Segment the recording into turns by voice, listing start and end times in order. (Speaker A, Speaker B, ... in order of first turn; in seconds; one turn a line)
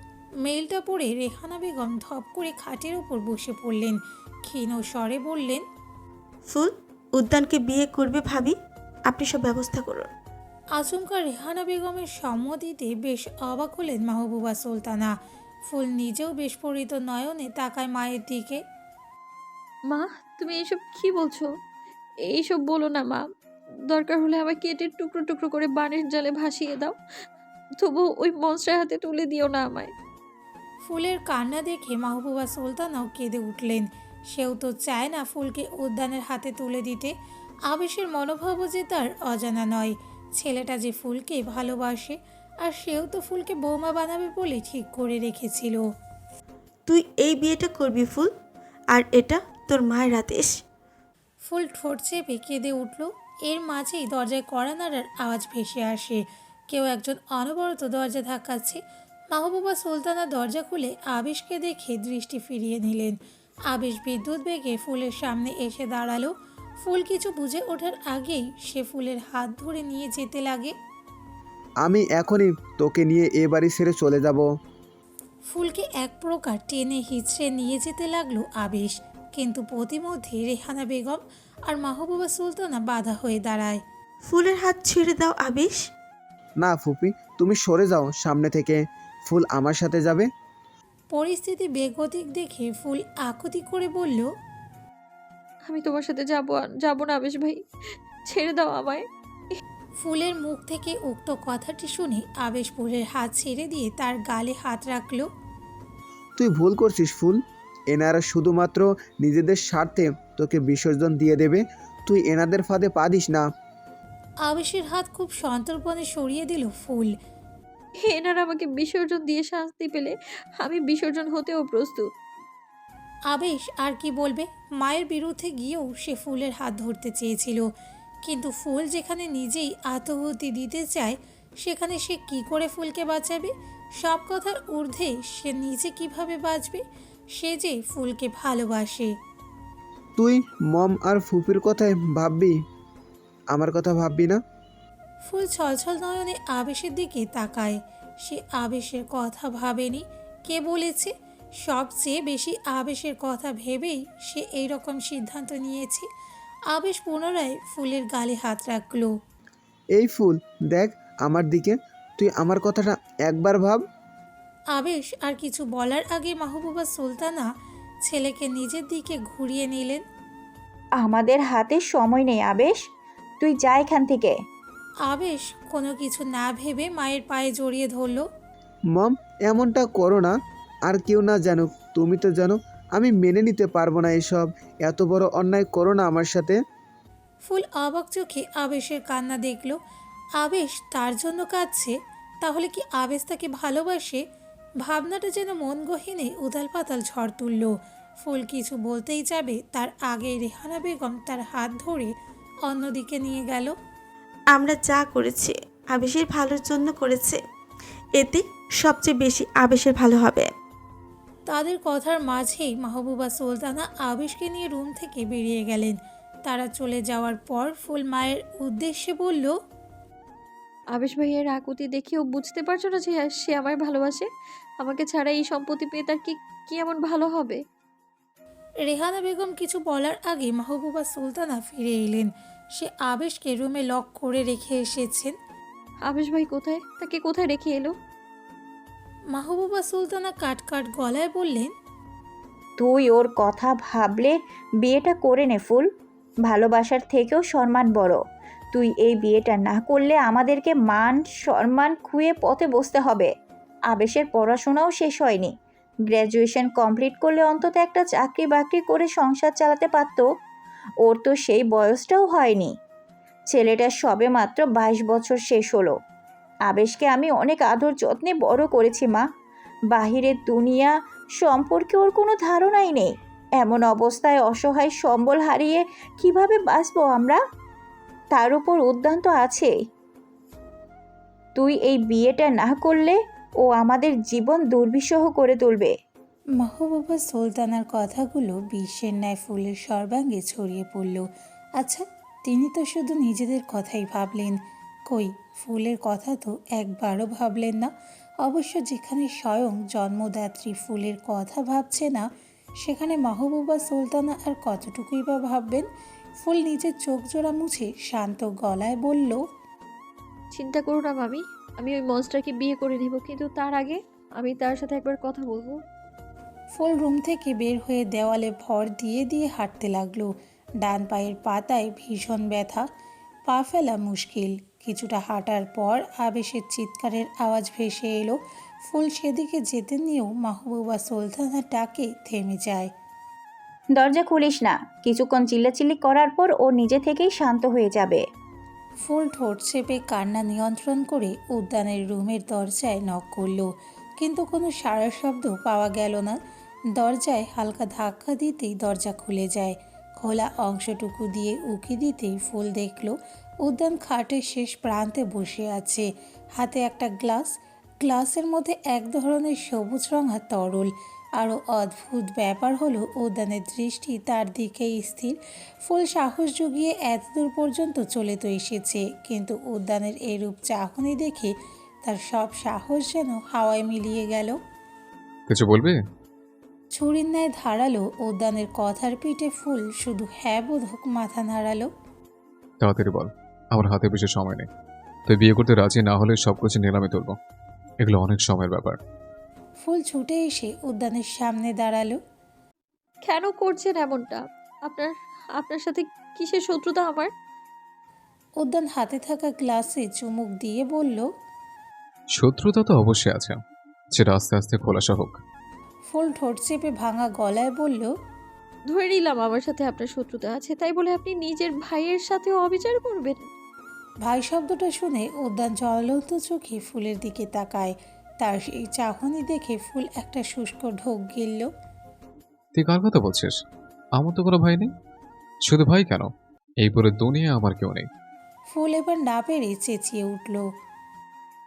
Speaker A: 0.4-5.6
Speaker B: 6.5-8.6
Speaker B: 9.1-10.1
Speaker A: 10.8-15.1
Speaker A: 15.7-18.6
Speaker C: 19.9-21.5
Speaker C: 22.2-23.3
Speaker C: 23.9-26.9
Speaker C: 27.8-29.9
Speaker A: 30.9-37.1
Speaker A: 37.7-45.8
Speaker B: 46.9-48.3
Speaker B: 48.9-50.6
Speaker A: 51.4-58.8
Speaker A: 59.3-63.1
Speaker A: 63.7-70.7
Speaker D: 71.8-74.5
Speaker A: 75.5-83.8
Speaker B: 84.2-85.8
Speaker D: 86.6-90.3
Speaker A: 91.1-94.2
Speaker C: 95.7-97.6
Speaker C: 98.3-99.0
Speaker A: 100.0-105.3
Speaker D: 106.4-113.5
Speaker A: 114.4-117.1
Speaker C: 118.0-122.1
Speaker A: 123.3-127.7
Speaker A: 128.2-136.8
Speaker A: 137.4-139.1
Speaker D: 140.2-142.6
Speaker D: 143.5-144.4
Speaker A: 145.2-151.1
Speaker A: 151.6-156.1
Speaker A: 156.7-159.1
Speaker D: 159.9-163.8
Speaker A: 164.7-167.4
Speaker A: 168.1-170.0
Speaker E: 171.0-172.8
Speaker E: 173.4-174.4
Speaker A: 175.1-178.3
Speaker D: 178.9-186.6
Speaker A: 187.5-189.8
Speaker A: 190.4-194.2
Speaker A: 194.8-197.7
Speaker A: 198.2-202.1
Speaker A: 202.7-203.7
Speaker B: 204.5-207.4
Speaker B: 208.2-210.5
Speaker A: 211.5-219.6
Speaker C: 220.9-224.3
Speaker C: 224.8-227.6
Speaker A: 228.8-235.3
Speaker C: 236.1-237.9
Speaker A: 239.3-241.7
Speaker E: 242.8-245.9
Speaker E: 246.4-248.2
Speaker E: 248.7-253.3
Speaker E: 253.9-255.5
Speaker E: 256.1-260.3
Speaker E: 261.0-262.7
Speaker E: 263.5-266.0
Speaker E: 266.7-269.3
Speaker E: 269.9-277.4
Speaker E: 278.3-279.7
Speaker E: 281.6-285.9
Speaker A: 286.6-291.2
Speaker A: 291.8-294.6
Speaker A: 295.1-297.9
Speaker A: 298.4-302.3
Speaker A: 302.8-305.9
Speaker A: 306.4-309.4
Speaker C: 310.5-315.8
Speaker A: 316.7-322.9
Speaker A: 323.5-332.9
Speaker E: 333.9-338.2
Speaker A: 339.1-346.4
Speaker A: 346.9-371.5
Speaker A: 372.0-374.6
Speaker F: 375.5-376.0
Speaker A: 376.9-381.9
Speaker F: 382.8-384.7
Speaker F: 385.3-387.4
Speaker F: 388.0-389.0
Speaker A: 389.8-392.2
Speaker C: 393.2-397.3
Speaker A: 398.6-401.2
Speaker F: 402.4-403.6
Speaker F: 404.1-405.4
Speaker A: 406.1-408.1
Speaker C: 408.9-413.5
Speaker A: 414.2-421.7
Speaker F: 422.7-423.6
Speaker F: 424.1-424.9
Speaker F: 425.6-426.3
Speaker F: 426.8-428.1
Speaker A: 428.7-430.6